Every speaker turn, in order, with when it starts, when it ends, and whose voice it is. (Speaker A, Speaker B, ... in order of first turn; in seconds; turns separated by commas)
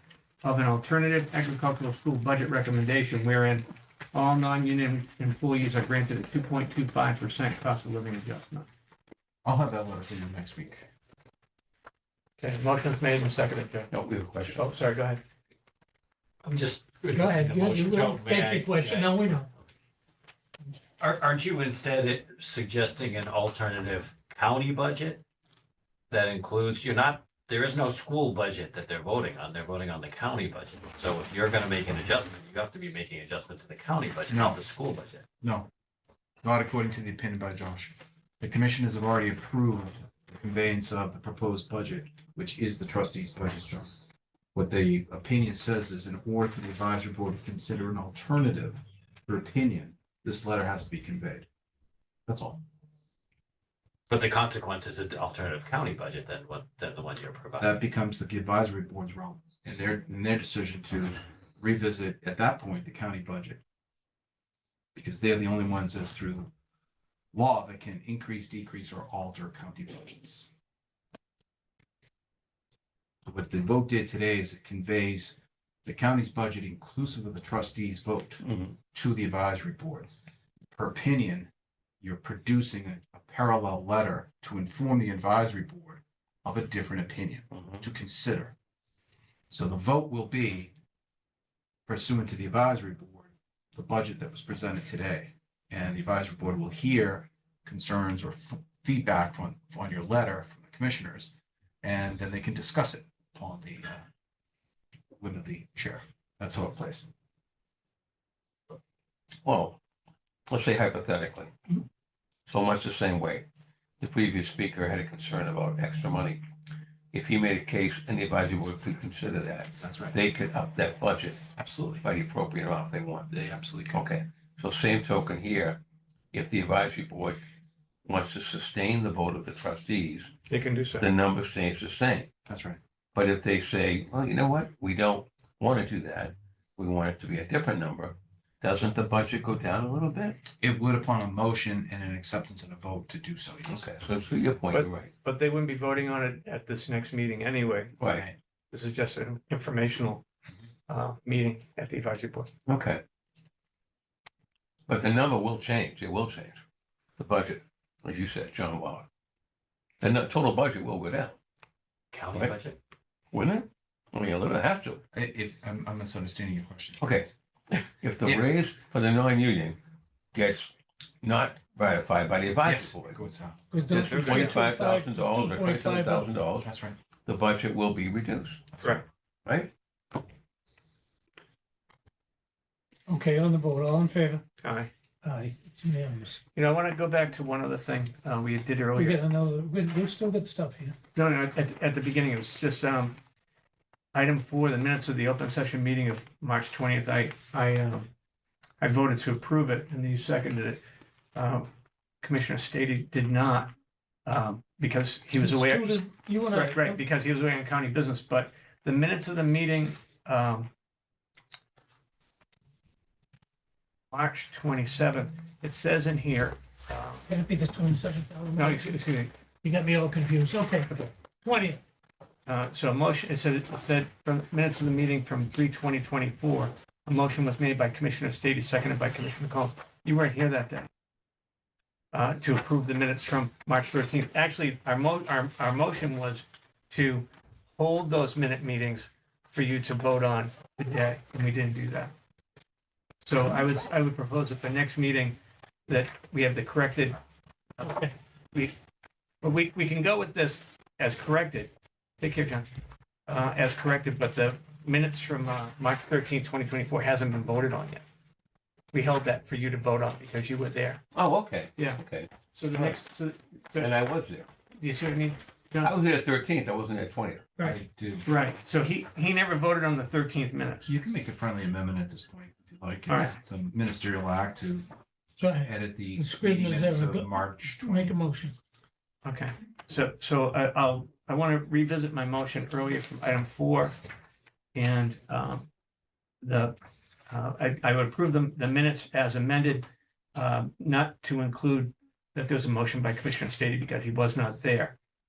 Speaker A: 0.4-8.7, Speaker B: 9.4-10.9, Speaker A: 12.4-13.9, Speaker C: 13.9-14.7, Speaker A: 14.4-15.2, Speaker D: 16.5-19.4, Speaker E: 17.1-19.5, Speaker D: 21.0-25.2, Speaker D: 26.1-35.2, Speaker B: 34.3-34.6, Speaker B: 35.4-35.7, Speaker B: 36.4-43.9, Speaker B: 44.5-51.5, Speaker B: 52.3-52.6, Speaker D: 54.1-57.8, Speaker B: 57.6-63.6, Speaker B: 64.9-66.5, Speaker B: 67.3-70.5, Speaker B: 73.2-80.1, Speaker C: 78.4-78.8, Speaker B: 80.7-81.5, Speaker B: 82.0-88.5, Speaker C: 87.5-87.8, Speaker B: 89.5-90.7, Speaker B: 91.9-101.3, Speaker B: 101.8-104.1, Speaker B: 105.2-107.1, Speaker C: 109.4-109.8, Speaker C: 110.5-111.7, Speaker C: 112.5-113.5, Speaker C: 114.0-116.4, Speaker C: 117.1-121.4, Speaker B: 119.8-120.1, Speaker B: 121.6-122.0, Speaker C: 122.0-123.3, Speaker B: 123.3-124.0, Speaker C: 123.9-125.8, Speaker C: 126.3-127.4, Speaker C: 128.0-130.3, Speaker A: 130.5-131.1, Speaker C: 131.0-132.3, Speaker B: 132.4-132.8, Speaker C: 133.1-140.4, Speaker B: 140.6-143.9, Speaker C: 143.7-145.1, Speaker A: 144.7-148.0, Speaker B: 148.0-148.3, Speaker A: 148.7-150.2, Speaker A: 150.9-152.5, Speaker C: 152.7-153.0, Speaker C: 154.9-156.6, Speaker C: 157.2-159.1, Speaker C: 160.0-161.3, Speaker D: 162.1-162.8, Speaker C: 163.3-165.0, Speaker B: 165.1-167.3, Speaker C: 167.0-169.8, Speaker B: 168.2-168.5, Speaker C: 170.3-173.2, Speaker B: 172.6-174.1, Speaker E: 173.7-176.3, Speaker C: 173.9-176.7, Speaker A: 174.1-174.6, Speaker B: 176.6-177.0, Speaker C: 177.2-178.7, Speaker B: 178.7-179.0, Speaker C: 179.4-179.7, Speaker E: 183.1-184.4, Speaker A: 184.6-184.9, Speaker E: 185.2-186.4, Speaker A: 186.5-189.2, Speaker E: 188.9-190.9, Speaker A: 191.1-193.2, Speaker A: 194.1-198.1, Speaker A: 198.8-200.8, Speaker A: 201.3-201.7, Speaker A: 202.2-203.7, Speaker A: 204.2-206.0, Speaker E: 205.4-207.0, Speaker A: 206.5-210.7, Speaker A: 214.1-217.2, Speaker E: 217.3-218.9, Speaker A: 218.6-219.3, Speaker E: 219.6-221.8, Speaker A: 222.5-230.9, Speaker A: 232.1-242.1, Speaker A: 243.2-247.2, Speaker A: 247.8-248.7, Speaker A: 249.4-252.7, Speaker A: 253.3-258.0, Speaker A: 258.9-261.0, Speaker C: 261.1-263.0, Speaker A: 262.5-263.9, Speaker C: 263.8-264.5, Speaker A: 264.8-265.9, Speaker C: 265.8-267.4, Speaker B: 267.6-268.3, Speaker A: 268.2-270.9, Speaker B: 270.9-274.9, Speaker A: 273.1-273.3, Speaker E: 275.4-278.6, Speaker B: 275.6-278.2, Speaker A: 279.2-283.9, Speaker A: 284.7-285.7, Speaker A: 286.4-286.8, Speaker A: 287.3-294.9